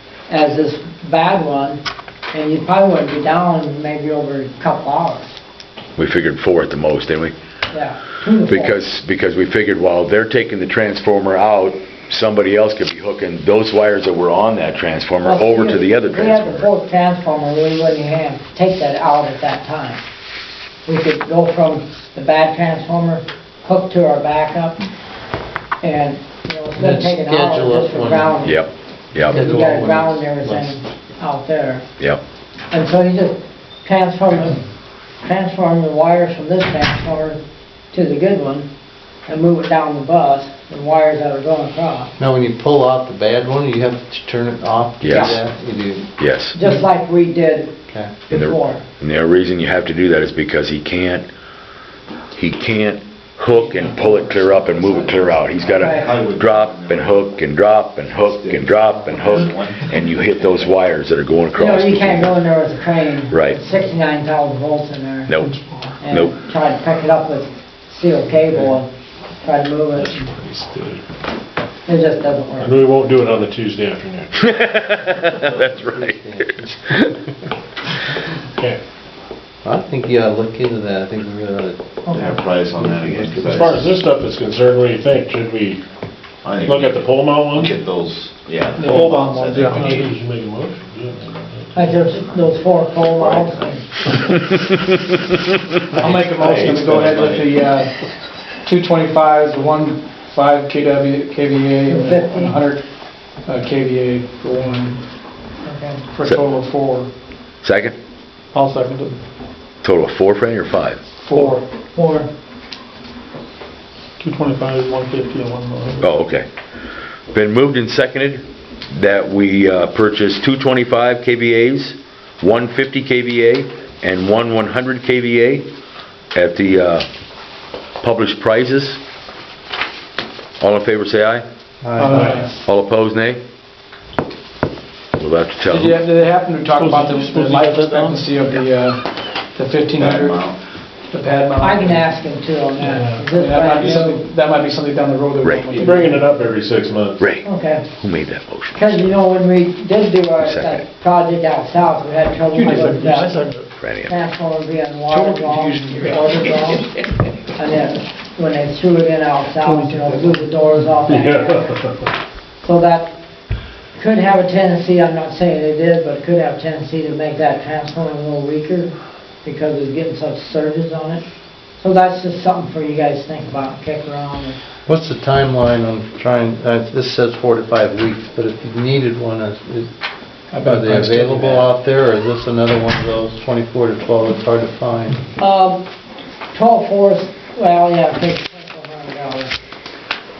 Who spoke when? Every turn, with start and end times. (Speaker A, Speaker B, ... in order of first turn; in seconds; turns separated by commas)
Speaker A: 0.3-1.8, Speaker A: 2.3-5.4, Speaker B: 6.0-7.3, Speaker A: 7.7-8.8, Speaker B: 8.5-16.7, Speaker A: 15.2-20.0, Speaker A: 20.9-24.8, Speaker A: 25.8-28.6, Speaker C: 26.8-28.4, Speaker B: 28.4-29.5, Speaker C: 29.3-30.7, Speaker A: 29.3-31.9, Speaker A: 32.7-34.6, Speaker A: 35.2-37.4, Speaker A: 37.9-38.7, Speaker A: 39.3-42.1, Speaker C: 42.2-46.1, Speaker B: 45.0-45.4, Speaker A: 45.1-45.4, Speaker B: 46.2-46.6, Speaker A: 46.5-47.7, Speaker A: 48.3-48.8, Speaker B: 48.3-51.3, Speaker B: 52.4-62.4, Speaker D: 53.7-55.2, Speaker E: 55.4-57.3, Speaker A: 55.8-56.1, Speaker E: 58.2-60.8, Speaker A: 61.6-65.3, Speaker B: 63.3-63.6, Speaker D: 65.5-66.0, Speaker A: 66.0-68.9, Speaker A: 69.4-70.3, Speaker F: 70.0-71.0, Speaker A: 71.9-72.8, Speaker F: 72.6-74.5, Speaker B: 74.5-77.1, Speaker C: 76.0-77.0, Speaker C: 79.6-83.6, Speaker E: 82.1-84.0, Speaker F: 83.3-85.8, Speaker E: 86.4-90.2, Speaker F: 86.6-87.8, Speaker D: 88.8-90.2, Speaker F: 88.9-92.1, Speaker A: 91.7-93.8, Speaker E: 92.2-93.8, Speaker E: 95.9-97.7, Speaker D: 96.0-97.9, Speaker D: 98.7-102.8, Speaker A: 101.9-102.6, Speaker D: 103.5-105.0, Speaker A: 105.7-106.0, Speaker D: 106.1-107.1, Speaker B: 107.6-108.0, Speaker D: 108.5-109.2, Speaker B: 109.8-111.0, Speaker D: 111.3-111.6, Speaker A: 111.3-112.3, Speaker D: 114.2-116.1, Speaker B: 116.0-116.5, Speaker B: 117.3-125.7, Speaker B: 126.3-127.1, Speaker B: 128.0-129.0, Speaker B: 130.6-131.4, Speaker C: 131.8-132.5, Speaker D: 132.0-132.5, Speaker B: 132.3-133.4, Speaker B: 135.2-136.0, Speaker D: 135.7-140.4, Speaker F: 136.8-138.3, Speaker E: 139.9-140.6, Speaker D: 141.1-142.1, Speaker A: 141.6-144.2, Speaker F: 142.8-143.3, Speaker D: 142.9-146.3, Speaker F: 143.8-144.1, Speaker B: 145.4-145.8, Speaker F: 145.7-147.2, Speaker B: 147.2-147.5, Speaker A: 147.4-147.9, Speaker B: 148.0-149.1, Speaker A: 148.8-153.3, Speaker B: 150.4-150.8, Speaker D: 152.5-153.7, Speaker B: 153.8-154.1, Speaker A: 154.1-156.9, Speaker D: 155.1-156.5, Speaker A: 157.6-161.8, Speaker D: 159.7-160.4, Speaker F: 161.1-162.1, Speaker A: 162.6-163.1, Speaker A: 163.9-171.2, Speaker A: 171.8-174.6, Speaker C: 174.9-179.9, Speaker D: 180.5-181.7, Speaker C: 180.6-185.2, Speaker A: 185.4-185.9, Speaker A: 186.5-189.5